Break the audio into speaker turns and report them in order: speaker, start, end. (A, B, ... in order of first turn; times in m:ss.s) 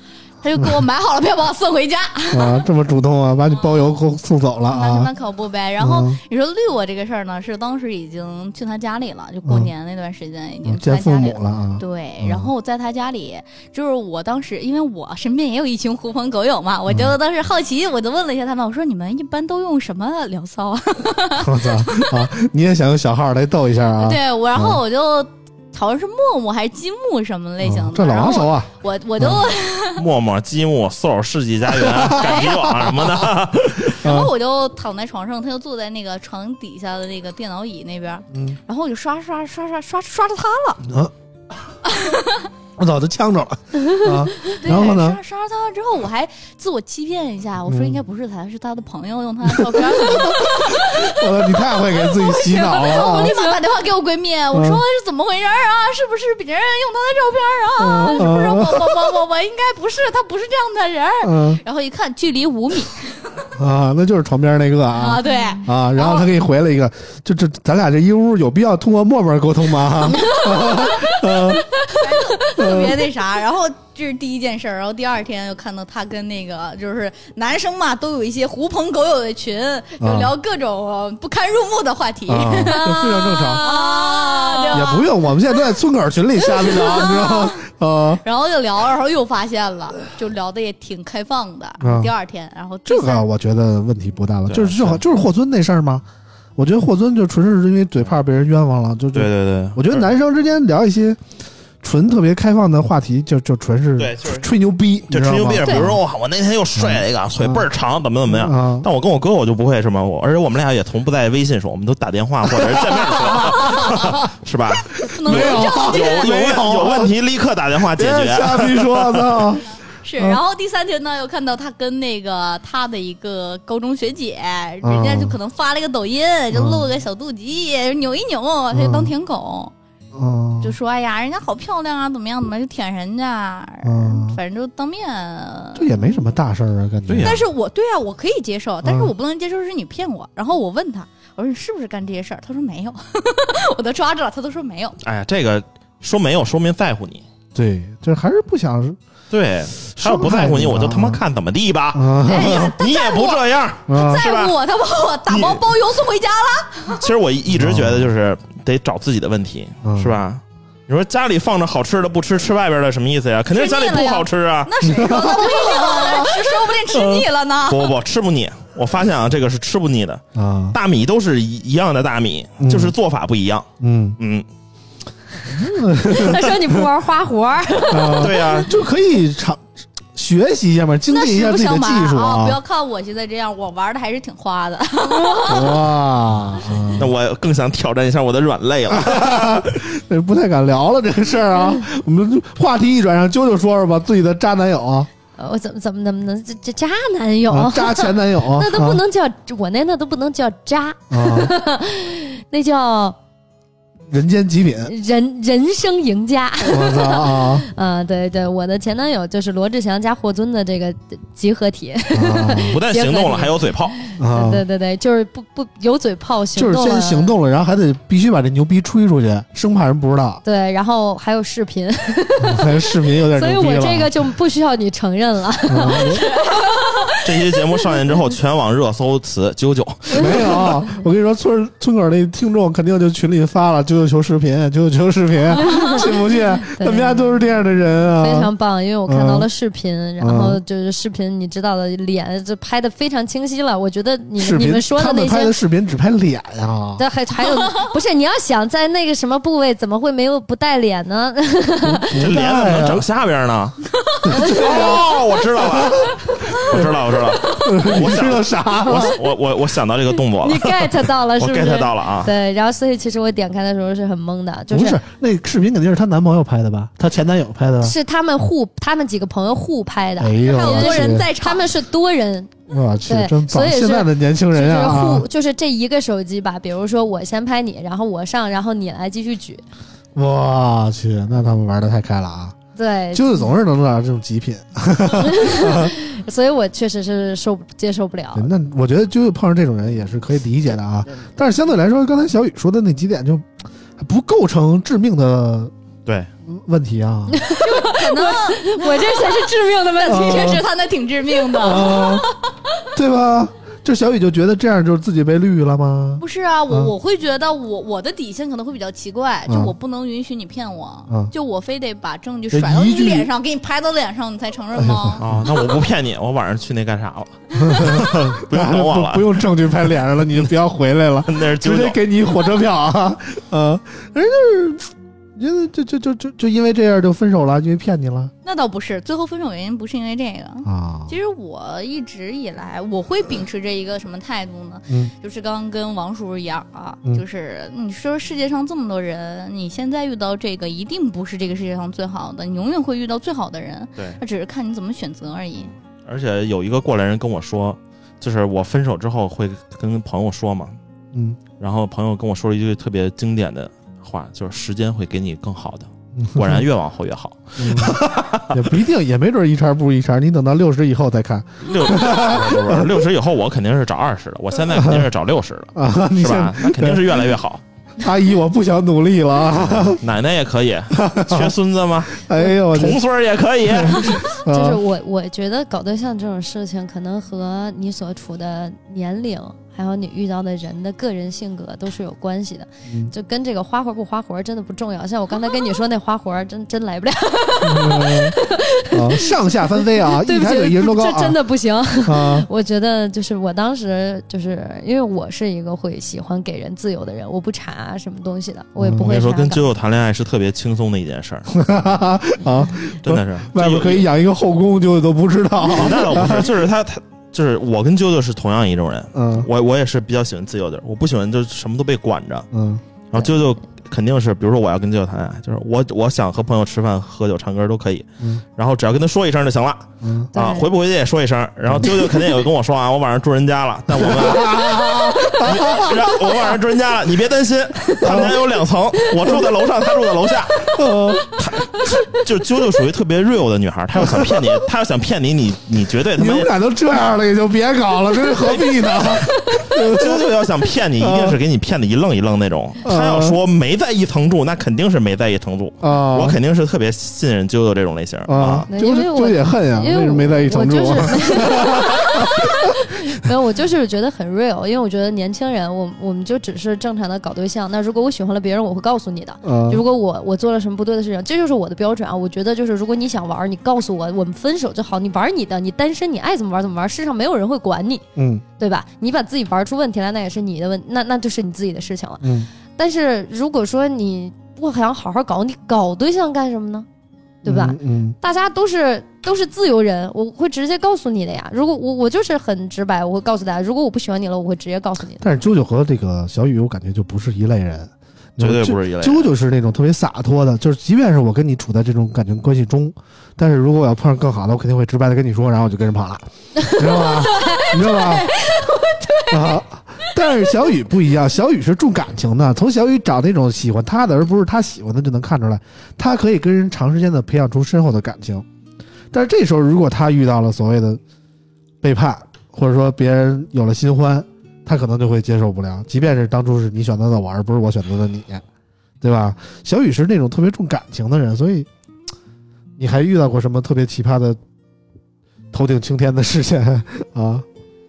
0:00.4-0:02.7 A
0:02.3-0:05.1 B
0:03.5-0:03.9 A
0:04.7-0:22.3 A
0:05.8-0:06.2 B
0:09.4-0:09.7 B
0:10.6-0:12.5 B
0:16.9-0:17.2 B
0:21.4-0:24.8 B
0:24.0-0:30.0 A
0:27.6-0:29.5 B
0:30.0-0:34.0 C
0:31.7-0:33.3 B
0:32.1-0:32.7 A
0:34.0-0:40.8 A
0:34.0-0:34.3 B
0:38.3-0:38.6 B
0:40.8-0:41.1 B
0:41.9-0:42.5 A
0:42.8-0:45.2 B
0:44.4-1:03.3 A
0:47.6-0:48.0 B
0:49.4-0:53.3 B
0:52.7-0:53.6 D
0:54.5-0:54.8 B
0:57.8-0:59.1 B
1:01.2-1:01.6 B
1:03.6-1:13.1 B
1:04.9-1:06.3 A
1:10.0-1:25.1 A
1:20.0-1:20.3 B
1:22.3-1:23.7 B
1:23.6-1:24.8 D
1:24.7-1:28.2 B
1:26.5-1:27.6 A
1:28.2-1:33.3 A
1:31.8-1:32.1 B
1:32.9-1:36.0 B
1:34.5-1:35.0 C
1:36.6-1:41.2 B
1:39.1-1:40.1 C
1:41.8-1:46.0 B
1:44.0-1:44.5 C
1:45.1-1:59.5 C
1:45.6-1:46.0 A
1:46.8-1:47.6 B
1:48.3-1:48.9 B
1:52.5-1:54.2 B
1:54.9-1:56.7 A
1:55.2-1:57.1 B
1:57.9-1:59.7 B
2:00.0-2:09.7 A
2:04.8-2:05.3 B
2:06.5-2:06.9 B
2:08.7-2:09.1 B
2:10.1-2:10.7 B
2:10.6-2:16.0 A
2:13.8-2:14.4 B
2:15.7-2:17.4 B
2:17.1-2:17.4 C
2:17.2-2:25.0 A
2:18.8-2:19.1 B
2:25.0-2:27.2 C
2:27.5-2:29.0 B
2:29.3-2:34.6 C
2:30.0-2:31.2 B
2:31.9-2:32.7 B
2:32.3-2:37.0 A
2:33.9-2:34.2 B
2:35.3-2:35.6 C
2:37.0-2:44.7 C
2:37.5-2:38.1 B
2:39.8-2:40.2 B
2:43.5-2:47.9 A
2:44.8-2:47.3 B
2:47.7-2:54.4 C
2:50.3-2:50.8 B
2:52.6-2:52.9 B
2:53.8-2:54.2 B
2:55.4-2:56.8 B
2:56.0-2:58.6 D
2:57.9-3:02.6 B
2:58.1-2:58.8 C
3:01.1-3:05.8 A
3:05.2-3:05.5 D
3:05.4-3:07.1 B
3:07.0-3:09.6 C
3:08.9-3:15.1 B
3:15.4-3:23.2 D
3:17.5-3:19.0 B
3:21.1-3:21.5 B
3:24.1-3:24.9 B
3:24.9-3:37.3 D
3:26.6-3:27.7 B
3:32.1-3:32.8 B
3:32.6-3:34.0 C
3:34.2-3:34.6 B
3:36.6-3:40.4 B
3:40.4-3:47.1 D
3:42.4-3:44.1 B
3:45.7-3:46.3 B
3:45.9-3:47.0 A
3:47.2-3:50.6 C
3:50.1-3:58.5 B
3:50.2-3:50.6 D
3:55.6-3:56.0 D
3:56.7-3:57.4 D
3:58.2-4:05.6 D
3:59.1-3:59.5 B
4:00.2-4:00.6 B
4:04.4-4:07.0 B
4:07.0-4:12.3 D
4:11.8-4:13.1 B
4:12.2-4:22.3 C
4:14.2-4:19.2 B
4:14.3-4:15.0 D
4:20.4-4:25.0 D
4:24.7-4:27.9 B
4:27.8-4:39.6 D
4:30.2-4:31.3 B
4:30.4-4:31.7 A
4:32.7-4:35.3 B
4:40.1-4:42.6 B
4:42.8-4:43.5 D
4:43.1-4:45.9 B
4:45.1-4:48.5 D
4:48.3-4:53.5 B
4:54.0-4:55.7 B
4:56.4-4:57.5 B
4:57.3-5:00.6 D
4:57.6-5:02.5 A
5:00.0-5:00.6 B
5:01.6-5:02.3 B
5:02.9-5:06.9 B
5:06.2-5:15.3 A
5:09.5-5:09.7 B
5:12.5-5:13.3 B
5:14.7-5:15.4 B
5:15.2-5:19.3 C
5:17.6-5:28.3 B
5:21.3-5:22.0 C
5:28.4-5:45.7 A
5:30.6-5:31.1 B
5:45.7-5:50.8 C
5:51.1-5:51.4 B
5:51.6-5:58.7 C
5:56.1-5:56.6 B
5:57.6-6:03.0 B
6:01.6-6:07.6 C
6:04.7-6:05.1 B
6:05.7-6:07.3 B
6:08.0-6:10.0 B
6:09.6-6:14.3 C
6:10.9-6:11.6 B
6:12.1-6:13.0 B
6:13.6-6:14.8 B
6:14.4-6:39.6 D
6:27.6-6:28.3 B
6:28.9-6:31.4 B
6:32.0-6:32.5 B
6:38.8-6:39.1 B
6:39.0-6:41.5 C
6:41.5-6:46.6 B
6:43.0-6:44.1 C
6:45.6-6:52.5 C
6:49.1-6:49.5 B
6:52.5-6:52.8 B
6:53.1-7:10.7 C
7:00.0-7:00.3 B
7:00.3-7:00.7 D
7:01.7-7:02.4 B
7:03.9-7:06.6 B
7:08.0-7:08.5 B
7:10.7-7:11.4 B
7:11.4-7:16.5 C
7:14.0-7:14.4 B
7:16.1-7:20.4 B
7:18.4-7:28.7 C
7:21.0-7:21.4 B
7:22.8-7:23.4 B
7:25.8-7:26.4 B
7:28.3-7:32.9 B
7:28.7-7:48.0 D
7:39.4-7:39.8 B
7:48.2-7:48.4 B
7:48.6-7:56.9 D
7:52.2-7:52.5 B
7:57.4-8:05.2 D
7:57.4-7:58.2 B
8:05.2-8:18.3 B
8:08.4-8:09.3 C
8:17.0-8:19.6 A
8:19.3-8:28.4 B
8:29.1-8:31.0 B
8:31.8-8:38.4 B
8:39.0-8:41.7 B
8:42.8-8:44.4 B
8:45.5-8:47.4 B